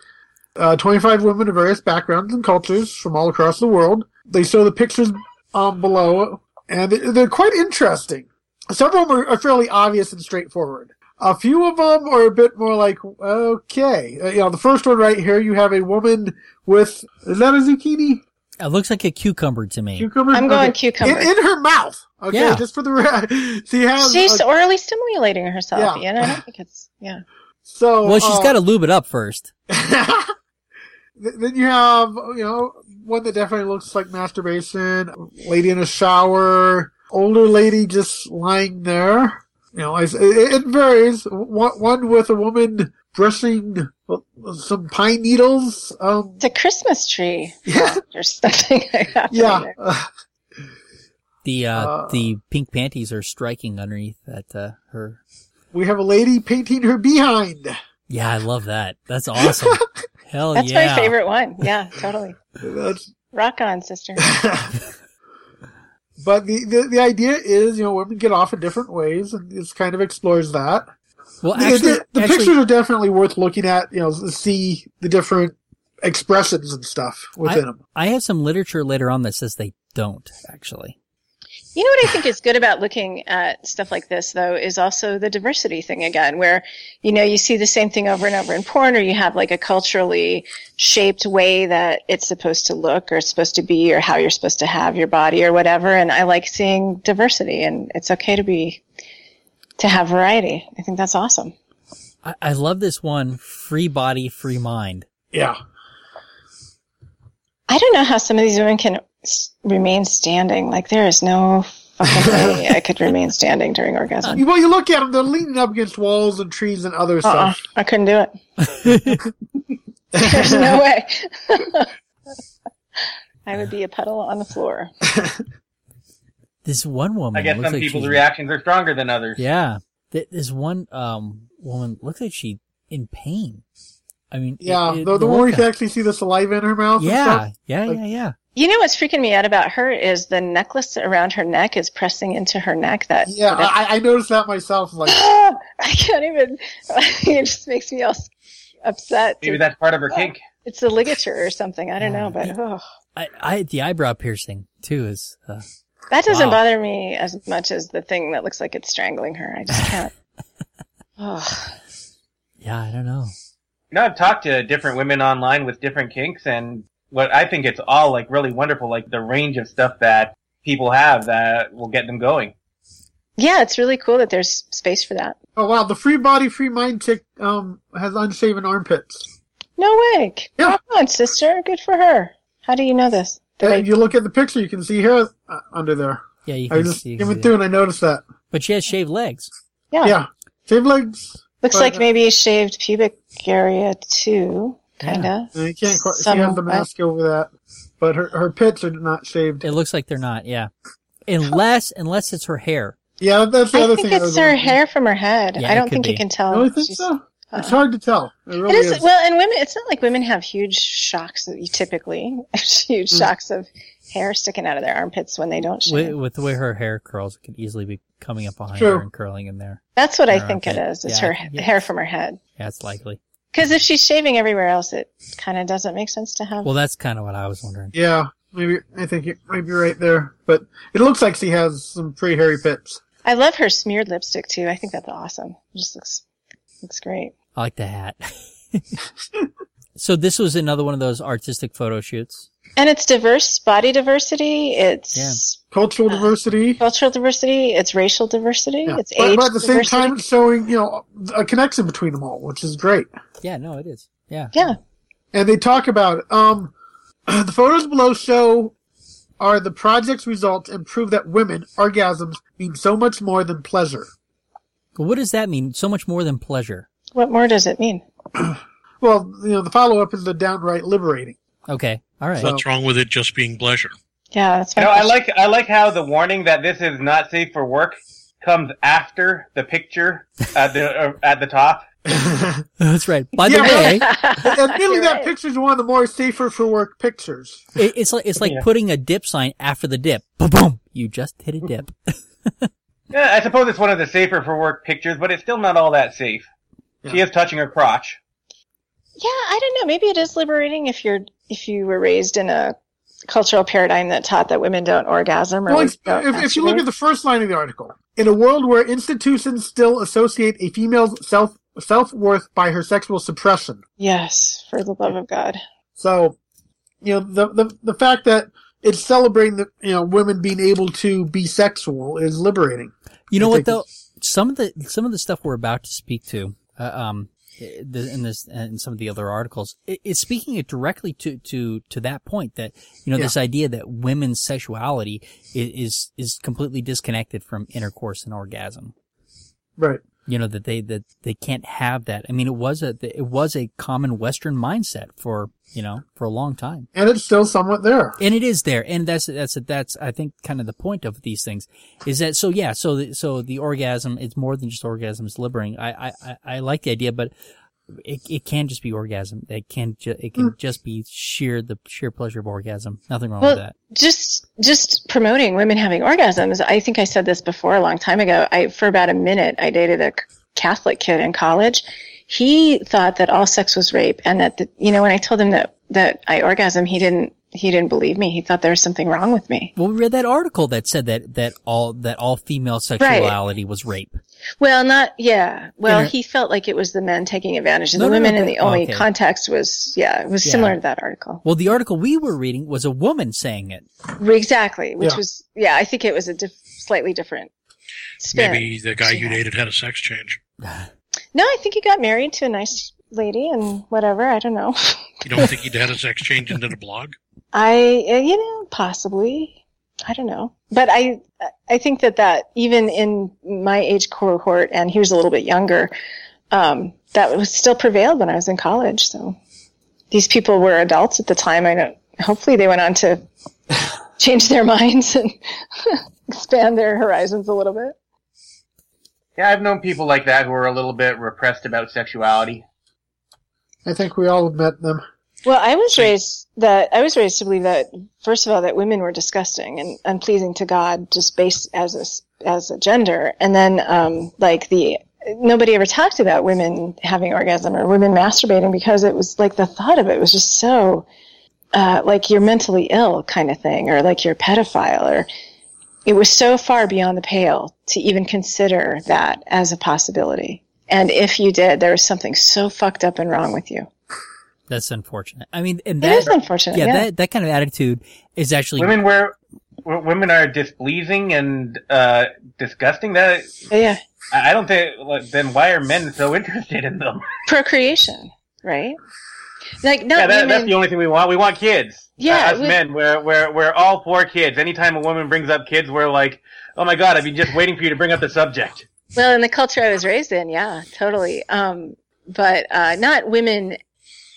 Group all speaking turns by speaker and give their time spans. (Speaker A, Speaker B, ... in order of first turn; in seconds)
Speaker A: 0.6-18.2, 20.0-24.4, 25.7-26.4, 27.6-28.5, 29.7-30.3, 31.2-46.4, 47.6-48.0, 49.3-50.1, 51.8-52.3, 55.7-57.8, 59.4-59.8, 62.6-63.1, 64.2-64.7, 66.2-70.9, 71.5-77.8, 105.3-105.6, 112.1-112.7, 114.3-117.6, 120.1-120.8, 134.6-138.0, 143.3-145.2, 175.6-179.3, 183.6-188.2, 190.0-192.0, 195.5-199.7, 203.2-204.8, 206.5-209.1, 218.7-219.1, 227.9-233.0, 245.7-246.8, 248.9-253.1, 255.3-256.7, 257.3-258.7, 259.4-264.1, 268.4-271.4, 282.1-282.6, 283.4-287.7, 305.7-313.8, 316.0-316.4, 317.0-323.8, 346.9-348.2, 433.9-435.0
Speaker B: 18.6-20.1, 22.3-22.6, 28.0-29.5, 51.4-55.2, 58.1-61.1, 71.4-72.5, 77.4-81.0, 102.2-105.1, 118.7-119.2, 126.6-128.2, 129.4-133.6, 134.3-135.7, 137.0-138.3, 152.0-152.5, 153.2-155.7, 156.3-156.6, 162.6-163.3, 186.4-187.5, 188.5-189.5, 195.0-195.3, 199.6-200.7, 201.2-203.0, 205.6-206.2, 215.8-221.7, 222.6-223.2, 226.6-227.9, 237.5-239.0, 239.9-242.5, 253.4-254.5, 264.9-266.9, 271.7-272.5, 282.8-284.1, 287.8-292.7, 323.3-338.9, 340.2-346.9, 348.2-357.3, 357.9-363.7, 379.8-384.2, 385.9-386.1, 387.9-389.1, 390.4-390.8, 391.4-393.9, 464.7-469.0
Speaker C: 20.3-21.3, 24.0-27.2, 46.4-49.7, 60.5-62.4, 63.3-64.3, 81.7-98.8, 99.8-101.5, 107.7-114.4, 117.2-118.3, 120.1-121.9, 123.5-124.9, 138.5-143.7, 145.1-148.3, 148.8-149.6, 150.2-152.8, 156.1-160.1, 161.2-161.8, 173.4-175.4, 179.8-183.9, 189.9-190.2, 191.6-196.8, 203.7-207.8, 208.7-216.2, 219.9-222.4, 223.5-226.7, 233.2-236.2, 236.8-237.3, 242.8-250.2, 267.1-268.0, 274.3-275.1, 283.5-285.3, 299.2-302.8, 303.3-306.8, 314.0-315.6, 363.4-379.7, 383.0-383.4, 384.6-391.4, 394.2-397.5, 398.2-399.4, 401.3-405.5, 407.5-415.9, 416.5-419.4, 420.1-423.2, 424.2-427.9, 435.4-451.1, 451.7-455.3, 456.1-463.9, 466.0-467.1, 473.7-474.0, 477.5-479.0, 479.8-480.7, 482.2-482.8, 489.1-493.8
Speaker D: 127.3-129.4, 149.4-150.4, 163.9-172.5, 274.8-281.9, 293.1-296.5, 297.1-298.2, 429.4-432.6, 468.8-473.6, 474.3-477.2, 480.1-488.9
Speaker E: 272.4-273.9, 398.3-400.4, 405.2-407.1